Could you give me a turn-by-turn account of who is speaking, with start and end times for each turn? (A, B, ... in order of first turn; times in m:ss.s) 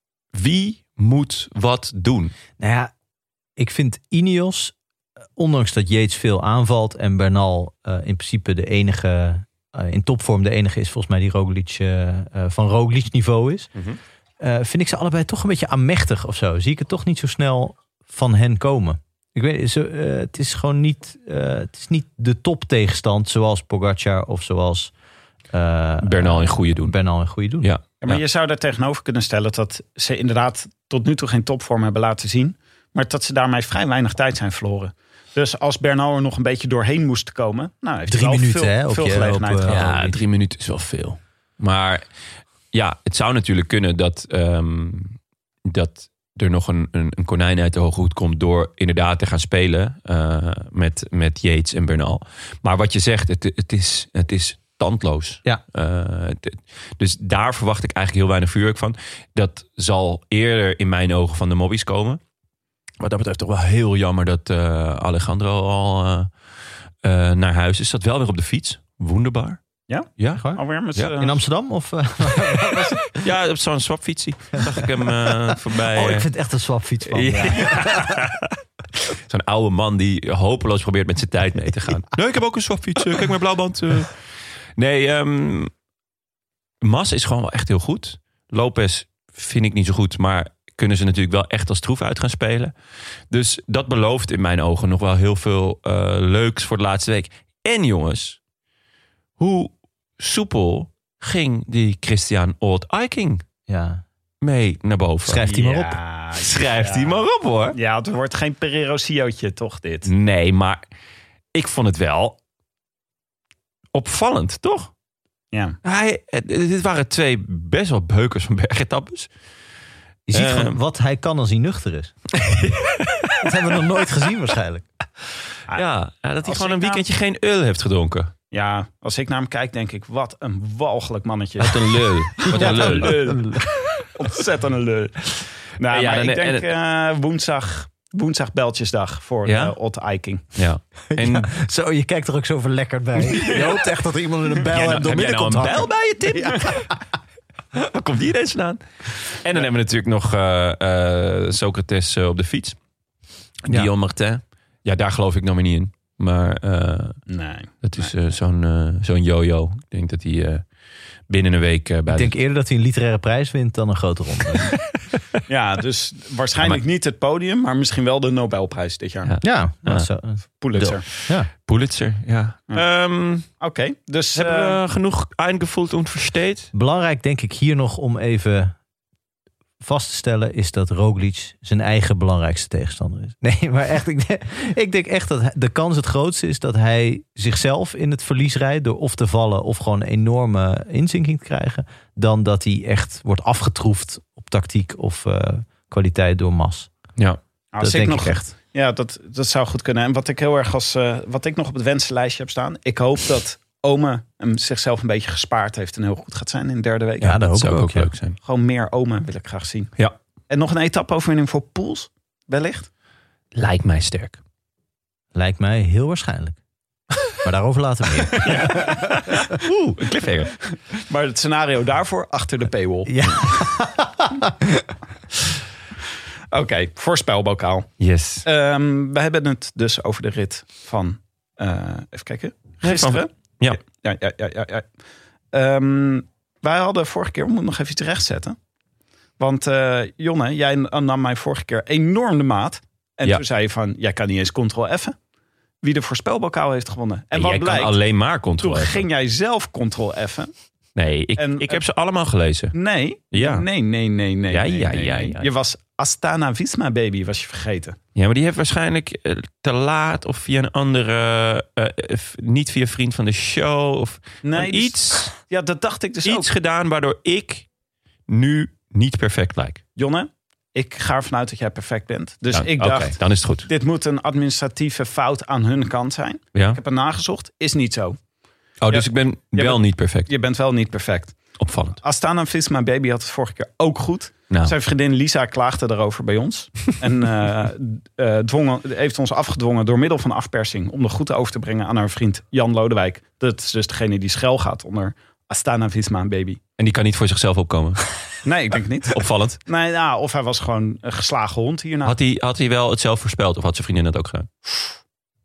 0:00.3-0:02.3 A
0:02.6-0:02.9 B
0:03.6-0:04.8 B
0:05.4-0:13.7 B
0:14.4-0:24.9 B
0:25.5-0:27.7 B
0:26.0-0:27.0 A
0:27.6-0:28.2 A
0:28.0-0:39.8 C
0:38.1-0:40.2 B
0:39.6-0:42.1 A
0:42.7-1:02.2 A
1:03.0-1:06.4 A
1:07.0-1:09.6 A
1:09.9-1:11.4 C
1:10.2-1:11.1 A
1:11.2-1:13.1 B
1:13.2-1:16.3 A
1:15.8-1:18.2 B
1:17.1-1:24.2 A
1:24.8-1:25.7 A
1:26.8-1:32.7 A
1:33.3-1:38.4 A
1:39.4-1:43.4 A
1:43.7-1:44.0 B
1:44.4-1:45.5 A
1:45.3-1:46.0 B
1:45.4-1:50.1 C
1:46.4-1:47.8 A
1:50.0-1:50.9 A
1:51.5-1:52.4 A
1:53.9-1:54.9 A
1:55.5-1:55.8 C
1:55.8-1:59.3 A
2:00.3-2:02.2 B
2:00.3-2:00.8 A
2:02.4-2:03.3 A
2:03.4-2:04.9 B
2:05.7-2:08.3 A
2:06.4-2:07.0 C
2:08.5-2:20.5 C
2:11.6-2:13.4 A
2:12.5-2:13.6 B
2:15.9-2:16.7 A
2:19.4-2:19.8 A
2:20.5-2:21.5 A
2:21.1-2:25.9 B
2:23.5-2:23.8 A
2:24.7-2:26.9 A
2:26.6-2:26.8 B
2:27.7-2:32.8 A
2:33.7-2:37.3 A
2:37.3-2:38.1 C
2:37.8-2:40.7 A
2:41.3-2:42.3 A
2:42.1-2:44.7 B
2:45.5-2:49.4 C
2:49.2-2:50.1 A
2:49.4-2:51.5 B
2:50.6-2:51.1 C
2:50.8-2:53.5 A
2:53.5-2:54.8 C
2:54.4-2:56.7 A
2:56.7-2:58.8 B
2:59.8-3:16.9 B
3:17.7-3:27.4 C
3:17.8-3:18.5 B
3:27.2-3:28.1 B
3:27.5-3:28.4 A
3:28.4-3:30.0 C
3:30.5-3:32.9 C
3:33.5-3:34.4 A
3:35.3-3:36.6 B
3:37.4-3:39.0 B
3:38.4-3:40.5 A
3:40.7-3:43.7 C
3:43.1-3:44.8 B
3:46.5-3:54.8 C
3:48.0-3:48.5 A
3:52.8-3:53.8 A
3:55.5-3:58.6 C
3:59.4-4:05.2 C
4:05.8-4:10.5 C
4:07.3-4:09.1 A
4:11.0-4:12.8 A
4:11.4-4:11.8 C
4:12.7-4:18.0 C
4:13.3-4:13.7 A
4:14.5-4:15.5 A
4:18.2-4:25.3 A
4:24.4-4:26.5 C
4:26.2-4:27.7 A
4:28.3-4:29.8 A
4:30.0-4:38.2 C
4:32.5-4:33.7 A
4:36.5-4:36.8 A
4:38.8-4:40.3 A
4:38.9-4:56.6 C
4:41.6-4:42.0 A
4:44.5-4:44.8 A
4:56.8-4:58.0 A
4:58.4-5:02.2 C
4:59.1-4:59.6 A
5:02.0-5:04.9 A